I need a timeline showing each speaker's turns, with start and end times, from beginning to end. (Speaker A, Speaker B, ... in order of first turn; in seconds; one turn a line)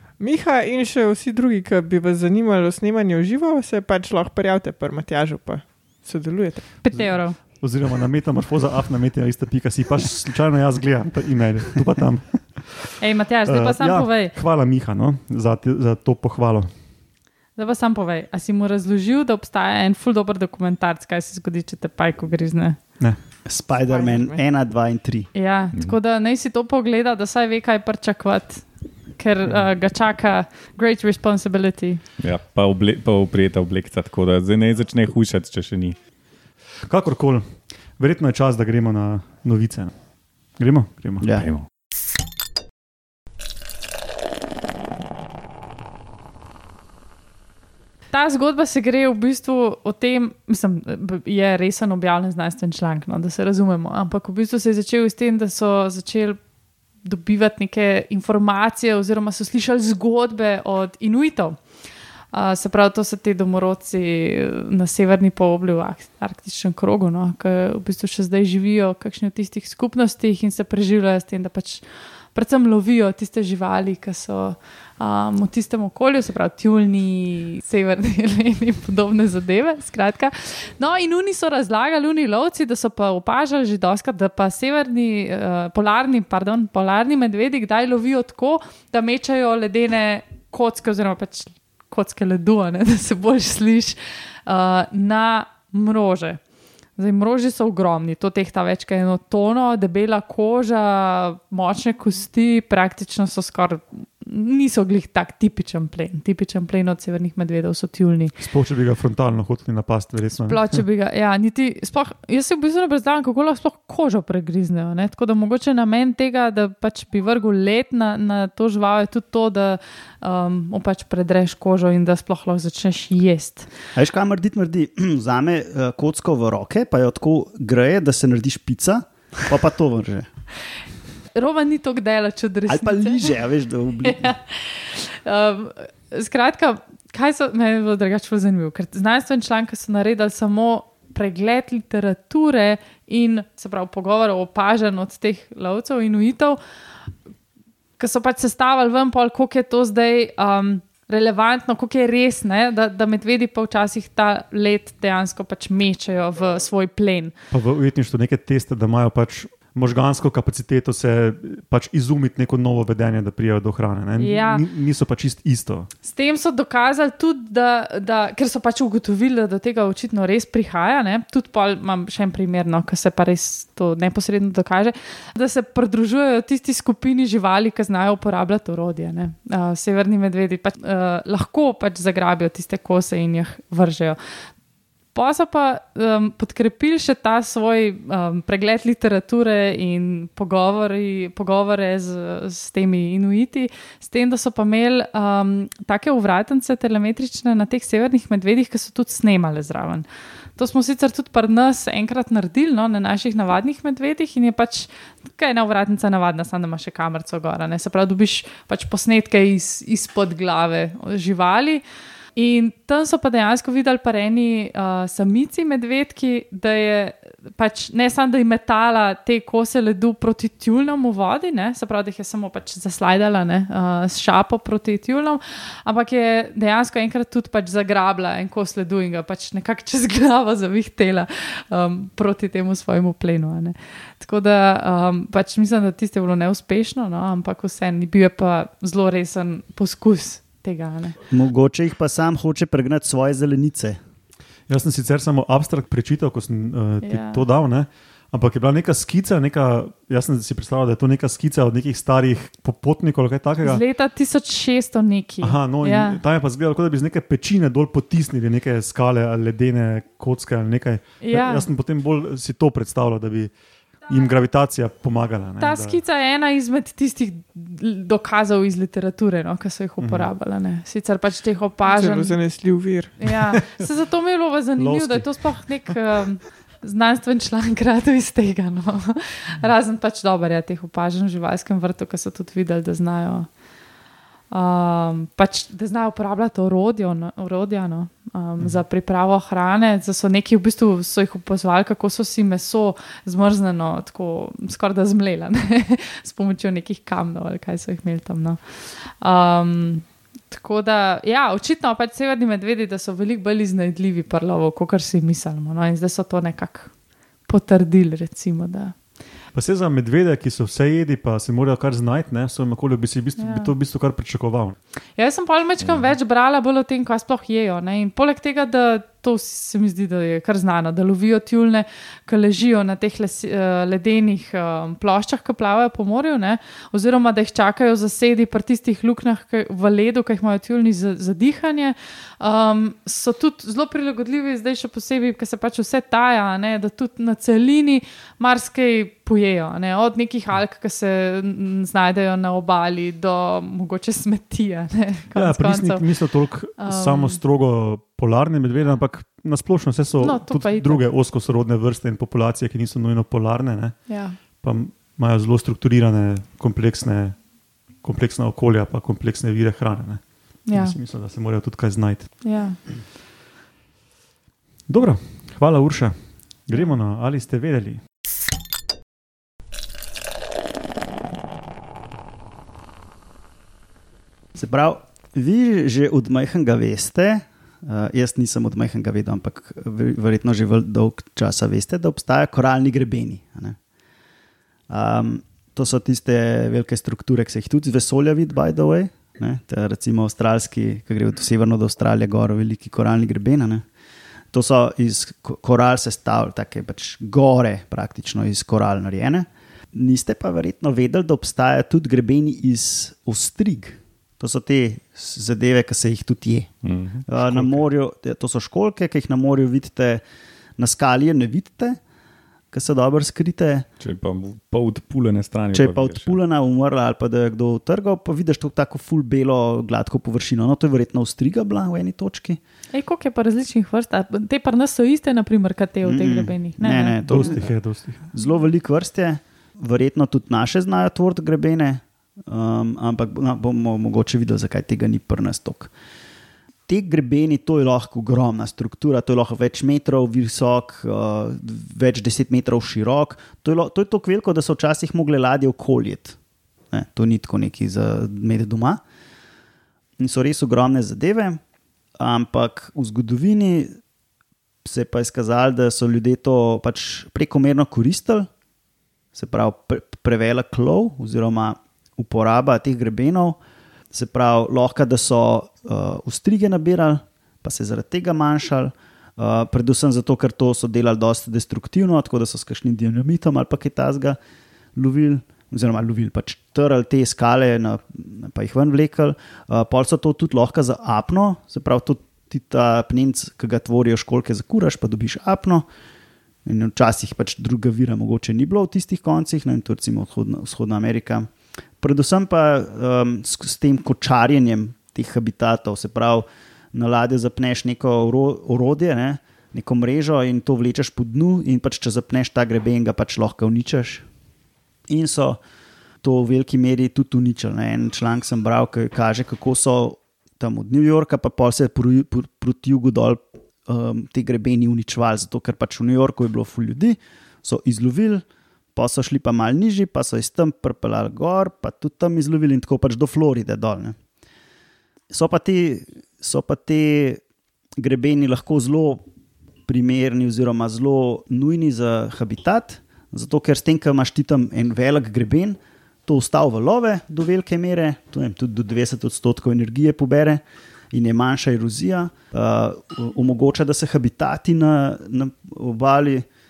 Speaker A: 0.2-6.7
Speaker B: 6.8-7.4
Speaker C: 6.9-16.7
Speaker B: 13.0-14.3
Speaker B: 17.6-22.8
Speaker D: 23.4-25.3
Speaker A: 23.7-24.4
Speaker B: 25.3-32.0
Speaker E: 32.2-36.0
Speaker C: 36.9-39.9
Speaker C: 40.6-41.2
Speaker D: 41.2-41.5
Speaker E: 41.3-41.6
Speaker B: 48.1-56.4
Speaker B: 57.0-61.6
Speaker B: 62.3-96.4
Speaker B: 97.0-108.3
Speaker C: 108.4-110.8
Speaker B: 110.5-123.7
Speaker D: 123.9-130.3
Speaker B: 131.3-133.4
Speaker D: 132.7-134.3
Speaker B: 134.0-146.6
Speaker B: 148.0-157.3
Speaker C: 157.5-165.9
Speaker B: 164.2-164.6
Speaker B: 166.0-184.2
Speaker B: 185.1-211.8
Speaker B: 212.3-241.2
Speaker D: 241.3-244.0
Speaker C: 244.7-253.8
Speaker B: 247.0-247.4
Speaker B: 253.6-256.2
Speaker C: 255.4-263.5
Speaker B: 261.2-261.7
Speaker C: 264.1-266.0
Speaker B: 265.6-272.4
Speaker C: 270.0-270.3
Speaker A: 271.9-273.1
Speaker B: 273.2-283.5
Speaker C: 274.8-275.3
Speaker B: 284.5-306.9
Speaker B: 307.5-308.9
Speaker C: 309.5-314.8
Speaker B: 313.4-313.7
Speaker B: 315.1-346.2
Speaker C: 345.3-354.0
Speaker B: 346.8-347.4
Speaker B: 350.2-351.0
Speaker B: 354.1-354.4
Speaker C: 354.6-357.4
Speaker C: 358.0-362.3
Speaker B: 360.7-360.9
Speaker B: 362.4-362.8
Speaker C: 364.9-368.0
Speaker D: 374.5-383.8
Speaker D: 384.9-393.8
Speaker D: 394.5-410.2
Speaker E: 406.8-407.8
Speaker D: 410.8-412.0
Speaker D: 412.7-413.9
Speaker E: 414.0-416.4
Speaker D: 415.7-422.6
Speaker B: 422.9-427.5
Speaker D: 426.0-427.7
Speaker C: 427.3-428.3
Speaker D: 428.3-435.9
Speaker D: 436.9-446.4
Speaker D: 446.9-449.0
Speaker D: 450.2-451.6
Speaker D: 452.2-454.0
Speaker D: 454.8-458.5
Speaker D: 459.3-463.6
Speaker D: 464.1-474.4
Speaker D: 474.9-485.9
Speaker D: 486.6-504.2
Speaker D: 505.1-505.6
Speaker D: 506.2-524.1
Speaker D: 525.3-527.4
Speaker D: 528.0-529.2
Speaker D: 529.9-546.5